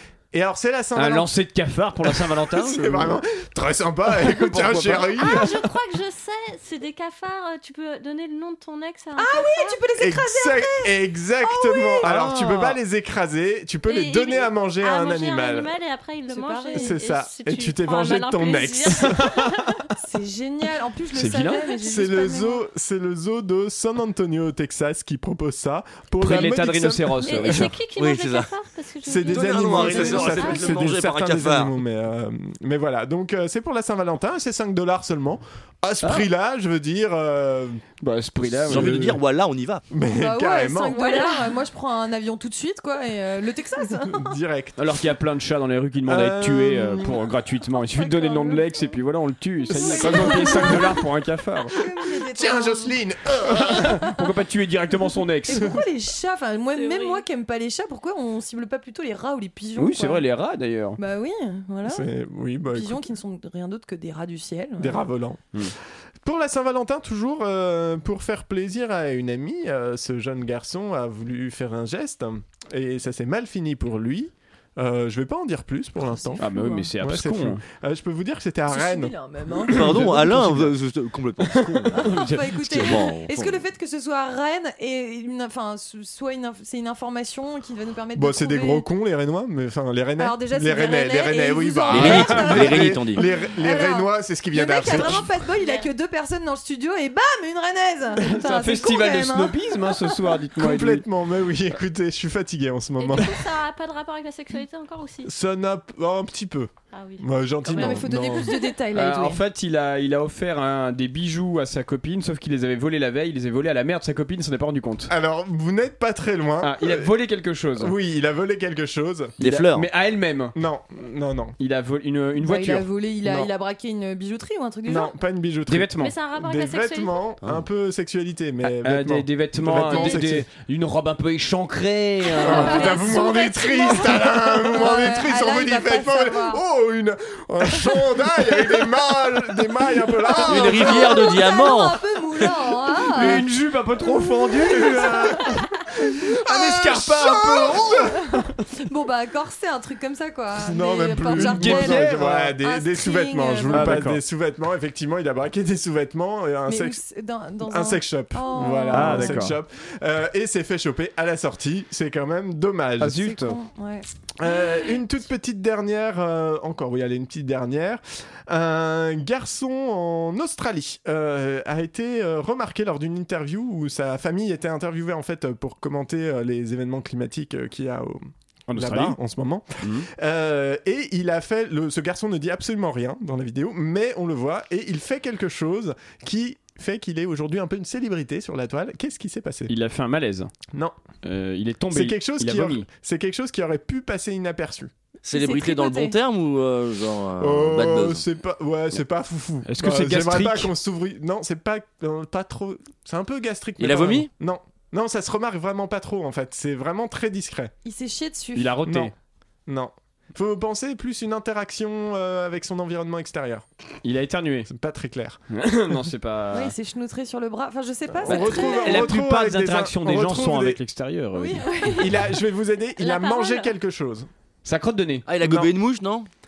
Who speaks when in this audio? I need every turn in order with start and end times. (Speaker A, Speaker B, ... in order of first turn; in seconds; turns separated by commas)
Speaker A: 0.3-1.3, Speaker B: 1.0-3.2, Speaker A: 2.0-5.6, Speaker B: 4.2-5.5, Speaker C: 5.2-9.9, Speaker D: 9.2-12.1, Speaker A: 10.0-15.7, Speaker B: 12.0-12.8, Speaker C: 13.9-19.9, Speaker D: 16.3-17.0, Speaker A: 16.8-19.3, Speaker D: 20.0-22.6, Speaker B: 21.1-21.7, Speaker A: 21.8-27.7, Speaker B: 26.2-27.8, Speaker C: 27.2-30.8, Speaker E: 28.0-28.5, Speaker A: 29.0-37.8, Speaker E: 29.2-31.7, Speaker B: 36.0-36.3, Speaker B: 38.0-39.2, Speaker A: 38.5-39.0, Speaker E: 38.7-39.8, Speaker A: 39.9-41.2, Speaker D: 40.1-44.3, Speaker C: 40.9-41.6, Speaker A: 44.1-44.8, Speaker B: 44.8-51.7, Speaker A: 46.1-47.2, Speaker D: 47.9-48.7, Speaker D: 49.7-51.0, Speaker A: 49.9-50.8, Speaker D: 51.7-53.0, Speaker A: 52.3-53.8, Speaker B: 53.5-55.8, Speaker D: 55.5-60.2, Speaker C: 56.7-57.2, Speaker B: 59.8-61.0, Speaker D: 61.0-62.1, Speaker A: 61.9-63.1, Speaker D: 62.7-65.0, Speaker A: 64.8-65.4, Speaker A: 66.2-76.5, Speaker D: 76.0-76.9, Speaker B: 76.4-77.6, Speaker A: 77.0-79.1, Speaker D: 78.7-80.0, Speaker E: 79.7-83.6, Speaker A: 79.7-80.7, Speaker B: 82.0-82.9, Speaker D: 82.1-88.8, Speaker A: 88.1-95.3, Speaker D: 90.2-100.2, Speaker E: 91.9-93.2, Speaker C: 95.5-95.9, Speaker B: 98.2-101.0, Speaker A: 100.6-103.5, Speaker C: 103.0-105.3, Speaker A: 105.2-108.5, Speaker C: 106.9-107.9, Speaker D: 107.7-109.4, Speaker B: 107.8-115.1, Speaker A: 115.1-117.1, Speaker B: 116.6-117.9, Speaker A: 117.8-119.3, Speaker E: 119.4-119.9, Speaker B: 119.4-120.5, Speaker A: 120.5-121.6, Speaker B: 121.6-123.4, Speaker D: 122.4-125.1, Speaker A: 124.9-130.5, Speaker B: 125.7-126.2, Speaker C: 126.0-127.3, Speaker B: 128.6-132.9, Speaker D: 132.4-136.6, Speaker A: 132.4-141.3, Speaker C: 132.6-133.1, Speaker D: 140.4-143.4, Speaker E: 140.5-142.0, Speaker B: 143.2-145.4, Speaker D: 144.0-145.5, Speaker A: 144.7-145.5, Speaker A: 146.1-148.3, Speaker B: 146.5-147.7, Speaker D: 147.1-148.3, Speaker D: 148.9-154.0, Speaker A: 150.6-157.0, Speaker B: 151.3-152.5, Speaker B: 153.7-154.2, Speaker D: 156.7-159.5, Speaker A: 157.6-163.3, Speaker B: 158.9-159.6, Speaker B: 163.0-163.6, Speaker D: 163.2-164.1, Speaker A: 164.4-189.7, Speaker B: 178.7-179.2, Speaker B: 179.8-180.1, Speaker B: 189.7-190.5, Speaker B: 191.2-192.9, Speaker A: 191.9-194.9, Speaker E: 195.2-198.2, Speaker D: 195.3-196.2, Speaker A: 197.4-207.7, Speaker B: 199.7-200.7, Speaker E: 203.8-204.3, Speaker D: 207.8-208.8, Speaker B: 208.6-209.1, Speaker A: 208.8-209.1, Speaker A: 209.7-213.7, Speaker B: 214.0-214.7, Speaker A: 214.7-215.4, Speaker B: 215.5-216.7, Speaker D: 216.5-219.2, Speaker A: 218.1-220.8, Speaker B: 218.2-221.7, Speaker D: 221.3-221.7, Speaker C: 221.6-222.4, Speaker A: 221.9-224.3, Speaker C: 223.0-223.8, Speaker B: 224.7-225.6, Speaker E: 225.3-226.3